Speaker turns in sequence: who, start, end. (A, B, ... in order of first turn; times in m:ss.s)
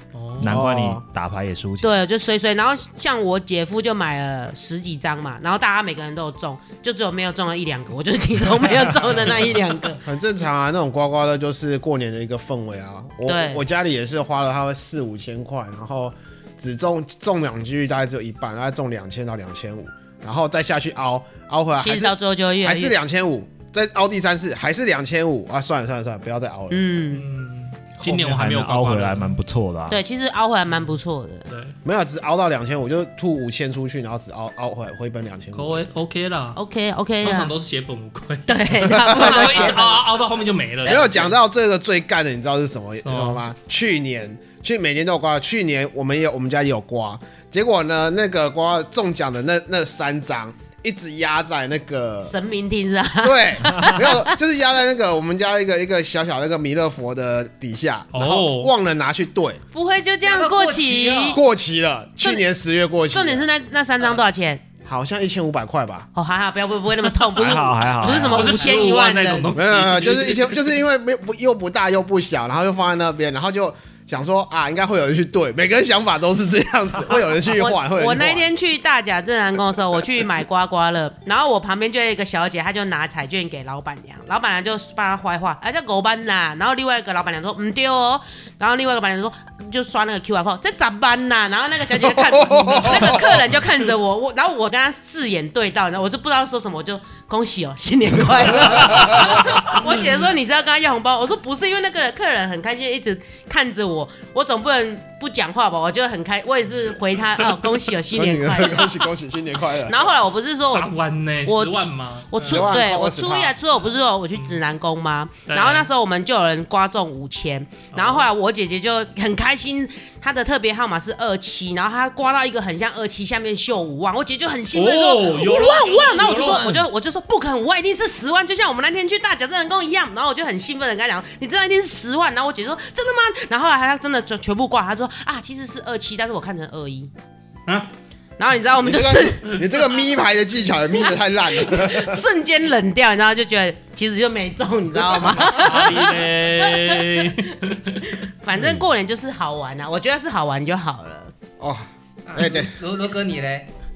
0:00.1-0:00.6 A
0:00.4-0:02.0 B
0:00.4-0:01.0 C
0:01.8-0:10.0 D
0:09.0-0:09.5 A
0:10.0-0:26.9 C
0:13.3-0:13.6 D
0:21.8-0:23.0 D
0:26.7-0:27.2 D
0:27.1-0:29.4 A
0:28.0-0:30.0 B
0:29.9-0:31.5 D
0:31.5-0:31.8 A
0:31.8-0:35.8 C
0:35.5-0:36.6 A
0:36.6-0:37.5 D
0:37.2-0:41.3 A
0:38.5-0:40.0 D
0:39.0-0:39.9 C
0:40.8-0:52.3 C
0:43.0-0:43.4 A
0:52.2-0:54.4 D
0:53.2-0:59.6 C
0:58.1-0:58.7 A
0:59.7-1:01.4 D
1:00.2-1:01.4 E
1:01.3-1:03.5 C
1:03.1-1:04.6 D
1:04.8-1:06.1 C
1:06.2-1:09.5 D
1:07.3-1:08.8 B
1:08.1-1:10.8 A
1:09.5-1:18.5 C
1:17.4-1:49.0 D
1:32.0-1:33.4 C
1:38.7-1:39.4 C
1:48.1-1:50.1 C
1:49.8-1:50.9 D
1:50.7-1:52.7 A
1:51.4-2:17.1 D
1:52.4-1:53.6 C
1:55.5-1:55.9 A
1:57.9-1:58.3 A
2:04.7-2:06.8 A
2:18.4-2:19.5 D
2:18.8-2:22.2 C
2:21.0-2:31.3 D
2:25.1-2:25.4 C
2:25.4-2:28.2 A
2:28.6-2:28.8 B
2:31.6-2:32.7 C
2:32.3-2:33.7 E